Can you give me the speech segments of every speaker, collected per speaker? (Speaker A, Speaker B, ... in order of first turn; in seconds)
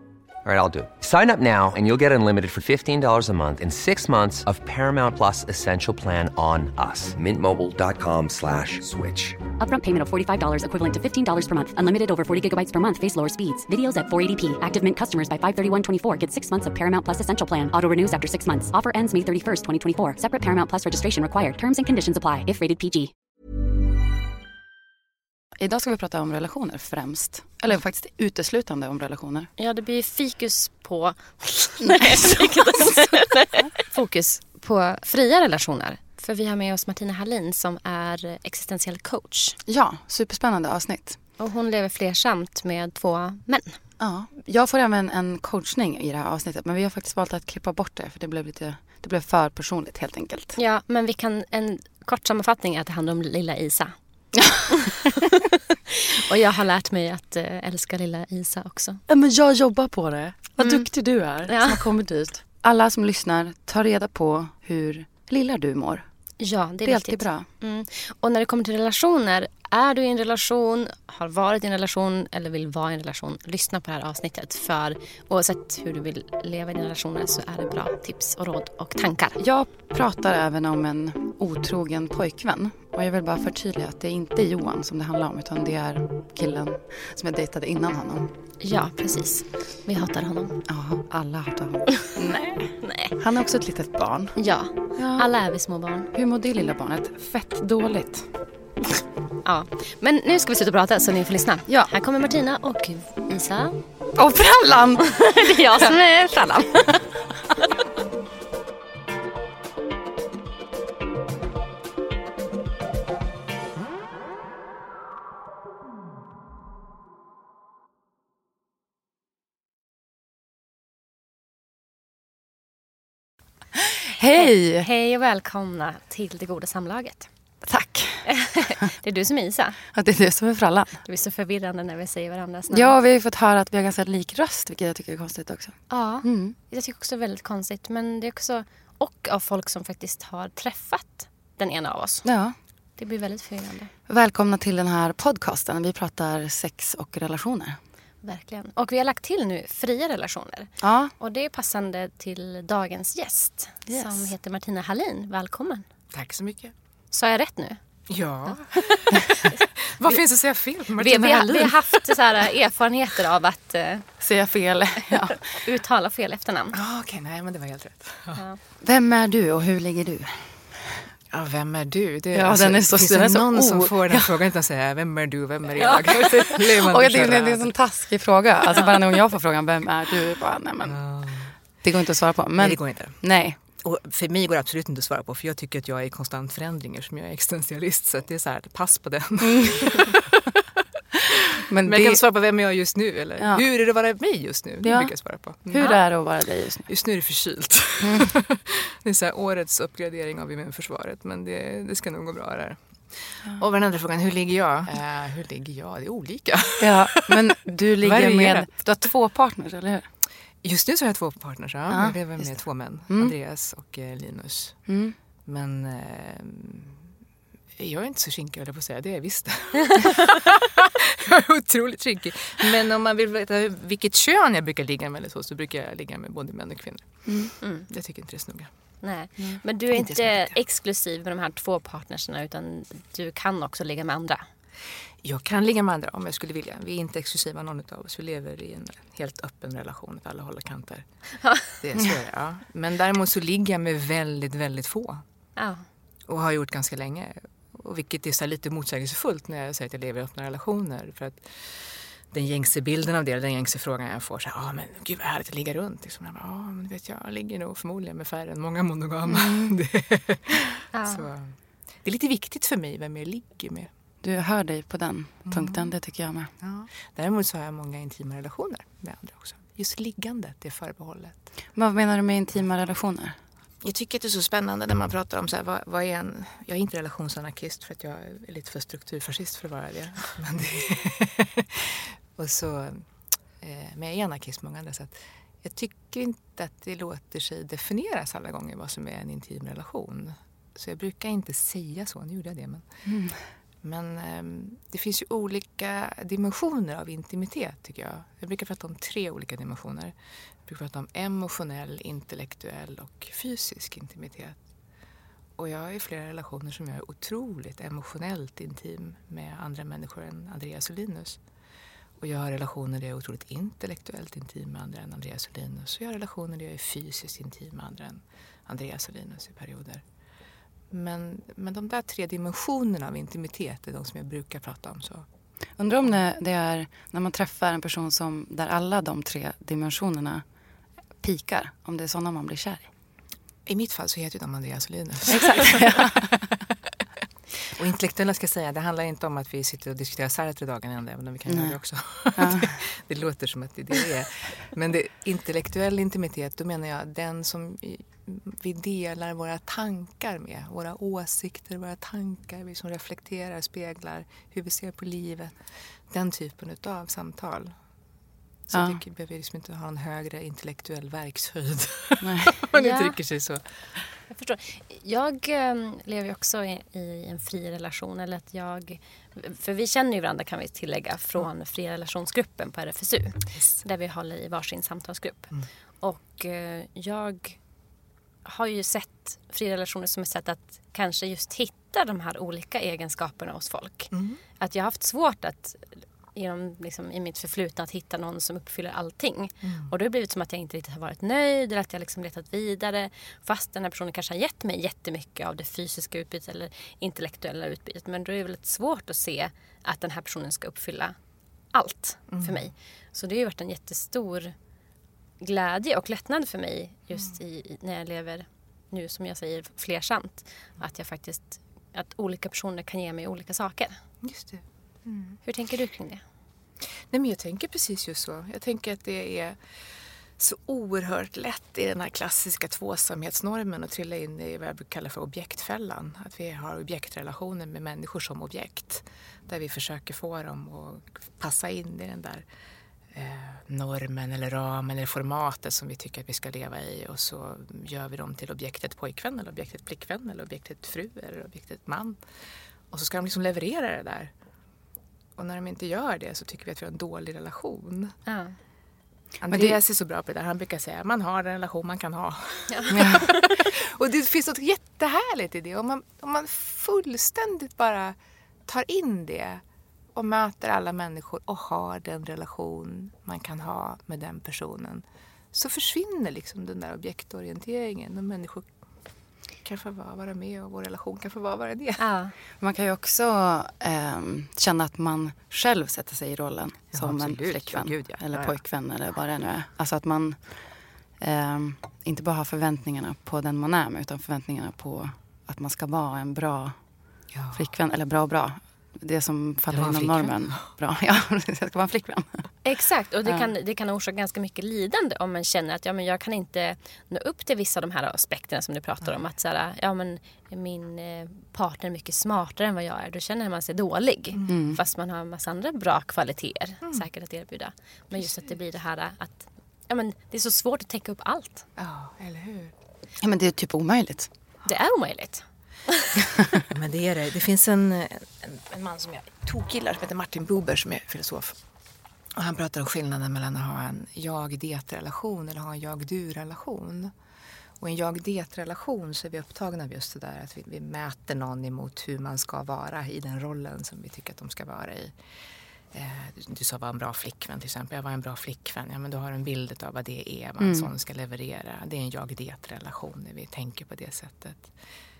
Speaker A: 0.4-9.4
Speaker B: 9.6-23.1
Speaker C: 25.6-29.5, 31.8-32.9, 39.6-41.2, 44.0-50.6, 59.1-66.0, 66.8-67.5, 79.4-88.3, 90.6-95.3, 96.1-98.3, 104.1-105.9, 106.8-107.2, 124.1-124.9, 127.6-128.6, 129.9-131.0, 132.7-136.6, 142.2-142.6, 144.1-147.8, 150.8-151.1, 153.9-154.3, 164.2-165.4, 168.8-171.1, 172.3-174.3, 176.8-181.0, 181.8-183.6, 189.4-189.8, 191.7-192.2, 193.4-193.6, 194.8-195.1, 195.7-196.9, 198.0-198.3, 206.8-210.1, 211.9-212.6, 213.1-213.3, 214.9-215.2, 259.3-259.7, 264.2-266.5, 271.7-273.4, 293.0-293.5, 325.8-330.4, 331.2-332.9, 335.3-336.3, 341.4-341.8, 342.3-342.8, 358.7-359.0, 362.2-362.5, 449.5-449.8, 452.9-453.2, 472.6-480.6, 481.2-486.8, 487.5-492.5, 504.5-504.8, 513.2-514.3, 540.6-540.9
Speaker D: 29.6-39.6, 41.4-43.8, 50.5-53.9, 54.7-55.4, 55.9-59.0, 60.6-60.9, 61.5-61.8, 66.4-79.4, 88.6-90.5, 92.8-93.1, 94.4-96.1, 99.4-103.8, 105.2-106.8, 124.3-127.3, 128.2-129.8, 131.0-132.9, 135.9-142.3, 143.0-143.9, 148.2-155.8, 157.1-157.8, 158.5-160.2, 161.0-164.1, 165.3-166.8, 175.8-176.5, 227.6-227.9, 229.0-234.4, 245.6-245.8, 260.9-261.2, 362.8-363.1, 364.3-377.6, 378.4-401.1, 401.7-404.5, 405.4-414.0, 415.4-416.2, 448.2-448.6, 452.7-453.5, 472.0-472.3, 492.6-511.6, 514.6-516.1
Speaker E: 156.1-156.7, 158.1-162.2, 166.7-168.4, 171.3-177.7, 180.8-181.5, 182.6-183.2, 183.8-190.5, 191.3-196.0, 196.9-207.4, 208.0-208.7, 210.6-214.9, 215.4-217.1, 217.8-228.7, 229.9-230.6, 235.2-241.0, 241.7-245.2, 246.3-263.9, 265.4-265.9, 266.6-271.4, 273.8-283.1, 283.6-292.8, 293.8-300.1, 300.6-304.6, 305.6-311.4, 312.2-320.0, 320.9-325.2, 333.6-336.6, 337.6-357.7, 358.7-363.9, 373.5-373.8, 384.1-384.4, 389.6-389.9, 402.3-402.7, 414.2-415.4, 417.1-419.6, 420.4-432.4, 433.1-442.2, 442.9-444.3, 445.4-448.1, 449.4-458.1, 458.7-459.6, 460.1-468.7, 469.6-472.0, 476.9-478.6, 487.3-487.7, 489.7-490.7, 504.3-504.7, 508.1-508.5, 511.8-512.7, 516.7-521.6, 522.3-527.1, 527.8-535.1, 535.9-544.7